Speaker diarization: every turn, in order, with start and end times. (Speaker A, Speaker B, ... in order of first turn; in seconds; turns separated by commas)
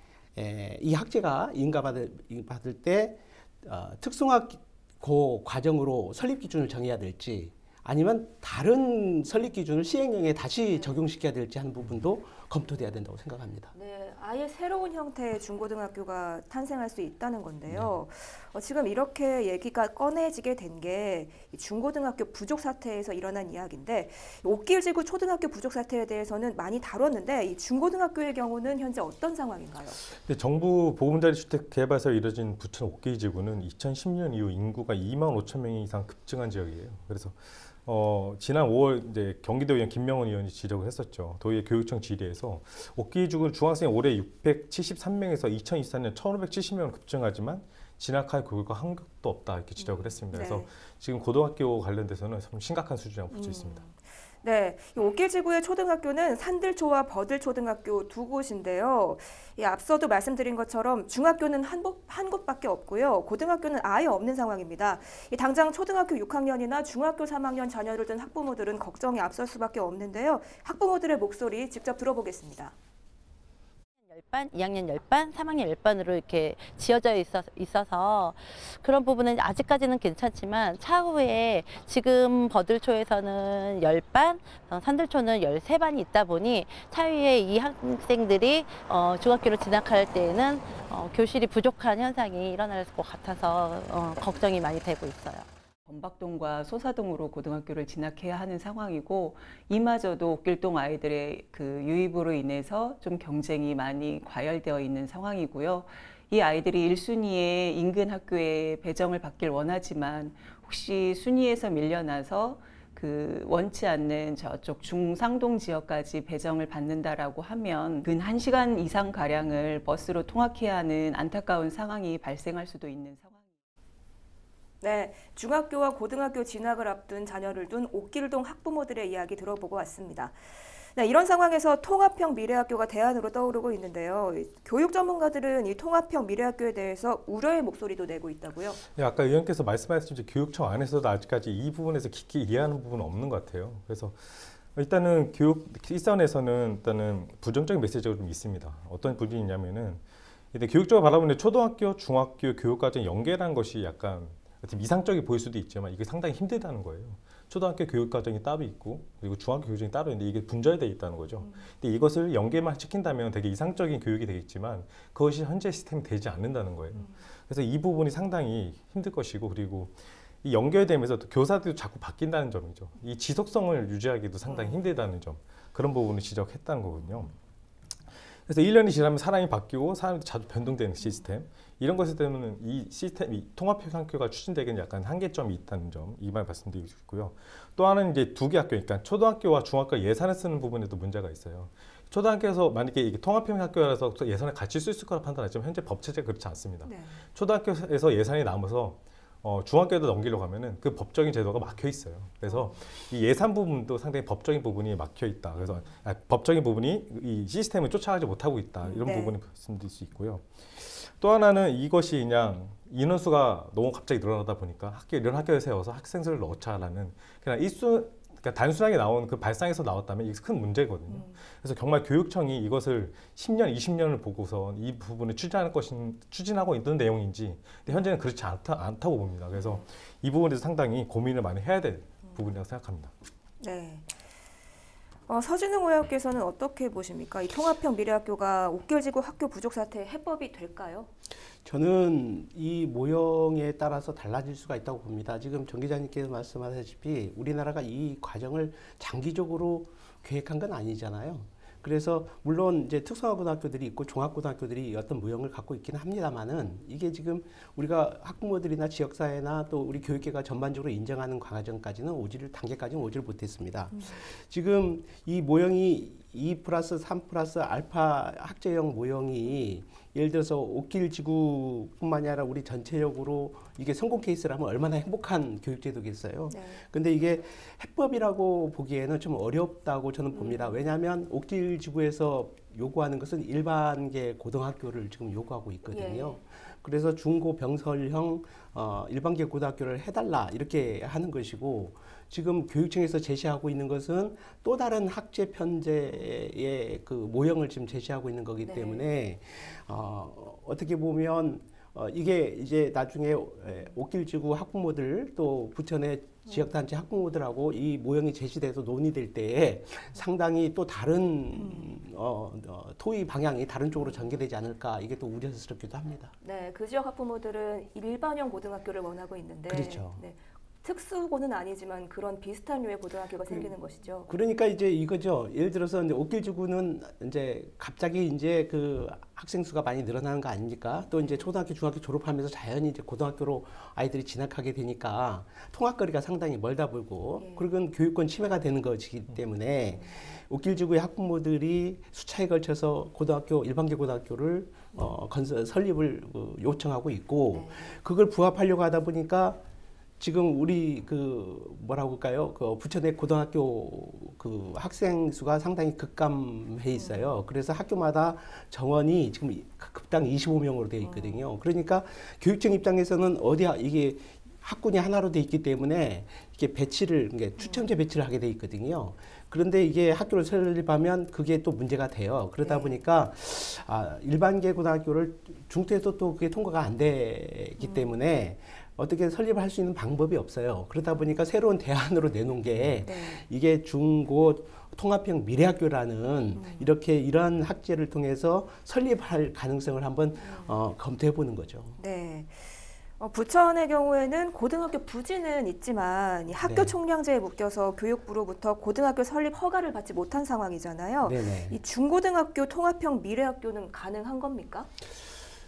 Speaker A: 0.3-13.7, Speaker B: 13.7-30.0, Speaker C: 30.0-53.8, Speaker B: 49.8-50.7, Speaker B: 53.3-72.8, Speaker D: 74.1-95.5, Speaker E: 95.9-123.5, Speaker B: 124.8-130.4, Speaker B: 130.9-138.8, Speaker C: 138.8-177.3, Speaker C: 178.5-233.1, Speaker B: 196.8-197.2, Speaker B: 202.5-202.8, Speaker B: 208.8-209.4, Speaker B: 229.6-229.8, Speaker B: 233.6-234.1, Speaker B: 235.3-241.1, Speaker A: 241.7-316.3, Speaker B: 276.5-276.8, Speaker B: 280.3-280.8, Speaker B: 285.9-286.4, Speaker B: 298.6-299.1, Speaker B: 311.6-311.9, Speaker B: 316.4-324.3, Speaker A: 319.7-320.2, Speaker A: 323.5-323.7, Speaker A: 324.3-349.6, Speaker B: 337.4-337.7, Speaker B: 347.5-347.9, Speaker A: 350.2-392.0, Speaker B: 356.9-357.4, Speaker B: 361.0-361.4, Speaker B: 367.6-367.9, Speaker B: 372.6-373.0, Speaker B: 377.8-378.1, Speaker B: 383.0-383.4, Speaker B: 386.5-386.9, Speaker B: 390.4-390.7, Speaker B: 392.0-404.9, Speaker A: 396.6-396.9, Speaker A: 401.2-401.8